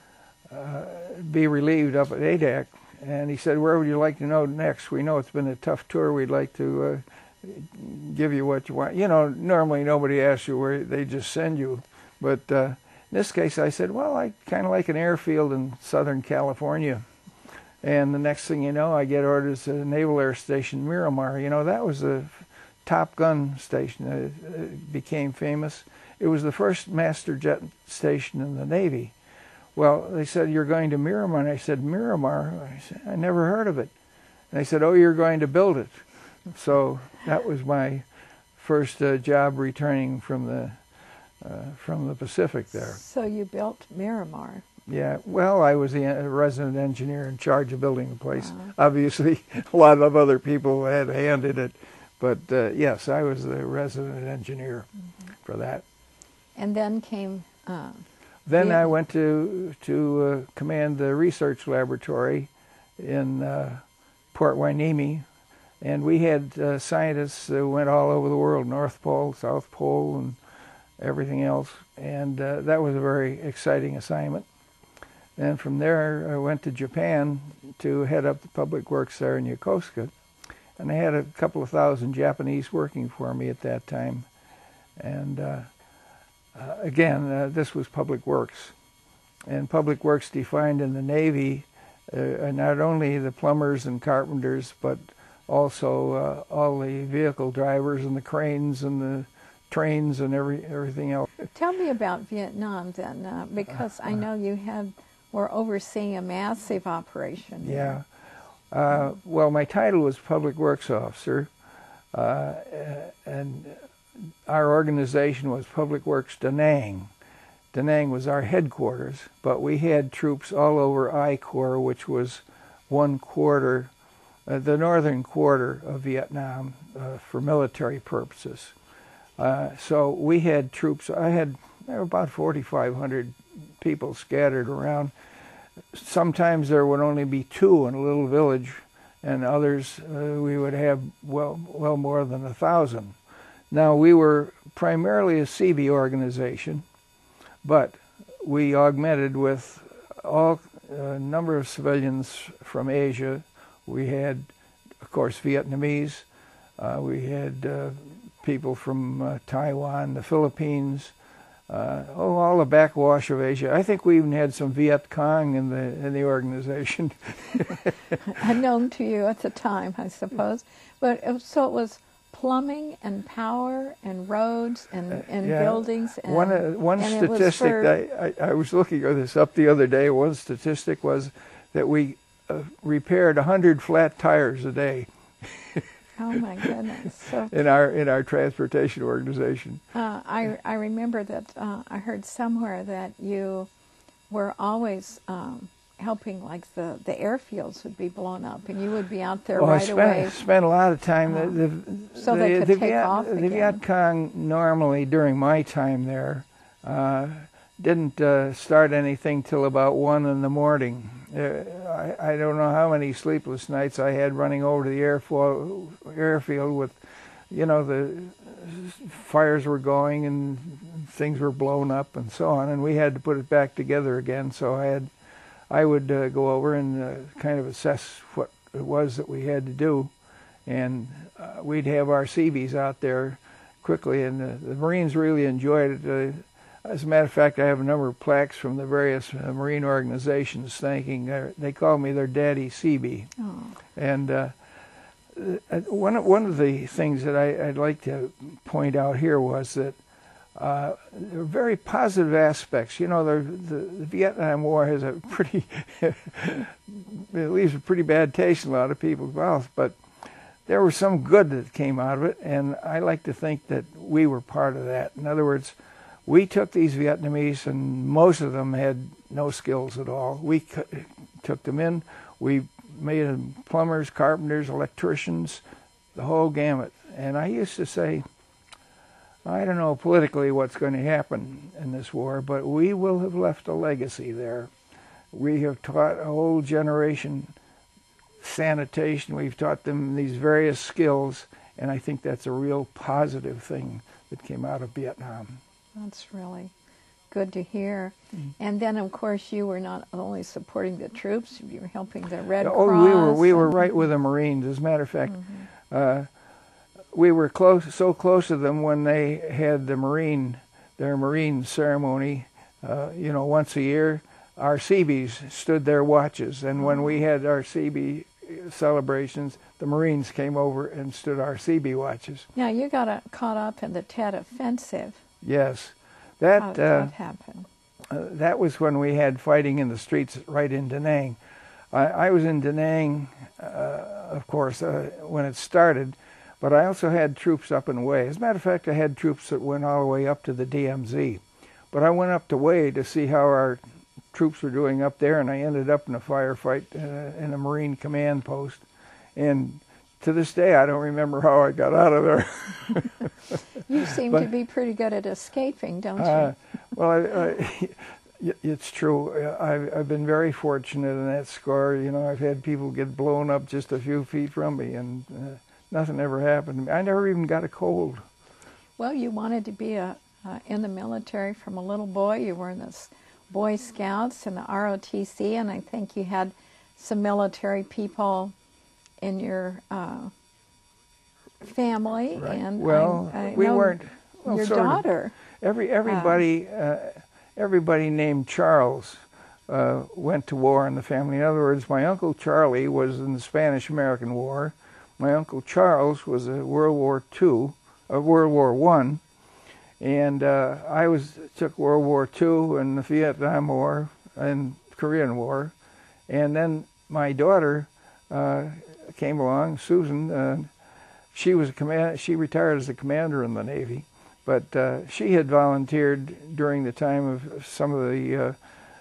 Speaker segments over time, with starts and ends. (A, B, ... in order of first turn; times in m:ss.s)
0:00.5-0:17.0 A
0:17.8-0:29.1 A
0:29.8-0:33.9 A
0:34.5-0:35.9 A
0:36.5-0:38.0 A
0:38.6-0:40.8 A
0:41.4-0:43.0 A
0:42.9-0:44.6 B
0:44.9-0:54.9 A
0:55.4-0:55.8 A
0:56.6-0:58.0 B
0:58.5-1:05.2 A
0:58.6-0:58.9 B
1:05.8-1:10.4 A
1:11.0-1:14.5 A
1:15.4-1:20.1 A
1:20.8-1:24.3 A
1:25.0-1:25.7 A
1:26.5-1:28.7 A
1:29.5-1:41.4 A
1:41.5-1:48.0 B
1:47.6-1:48.0 A
1:48.7-1:51.5 A
1:52.1-1:53.8 A
1:54.5-1:57.1 A
1:57.7-2:03.9 A
2:04.5-2:08.8 A
2:09.4-2:15.1 A
2:15.9-2:23.2 A
2:23.7-2:26.8 A
2:27.6-2:36.3 A
2:36.8-2:41.1 A
2:41.7-2:48.2 A
2:48.2-2:57.9 B
2:55.3-3:06.7 A
3:06.2-3:07.5 B
3:07.5-3:09.8 A
3:09.9-3:13.7 B
3:14.3-3:20.4 B
3:19.6-3:37.0 A
3:21.3-3:21.6 B
3:22.2-3:23.8 B
3:37.5-3:45.1 A
3:45.7-3:50.1 A
3:50.7-4:03.3 A
4:03.4-4:03.7 B
4:04.0-4:04.6 A
4:05.3-4:10.0 A
4:10.6-4:20.0 A
4:20.7-4:35.6 A
4:36.2-4:38.2 A
4:39.4-4:44.7 A
4:45.3-4:47.5 A
4:48.4-4:55.6 A
4:56.0-4:56.7 B
4:57.3-5:04.0 B
5:02.6-5:06.3 A
5:07.1-5:22.5 A
5:22.6-5:25.2 B
5:25.4-5:27.1 A
5:26.6-5:27.7 B
5:28.1-5:31.4 A
5:31.9-5:43.8 A
5:44.3-5:48.8 A
5:49.4-5:54.5 A
5:53.9-5:56.5 B
5:56.2-6:08.2 A
6:09.0-6:18.5 B
6:19.2-6:20.3 B
6:21.6-6:25.4 B
6:22.4-6:39.2 A
6:26.1-6:26.4 B
6:40.0-6:45.7 A
6:46.3-6:50.7 A
6:51.3-6:58.6 A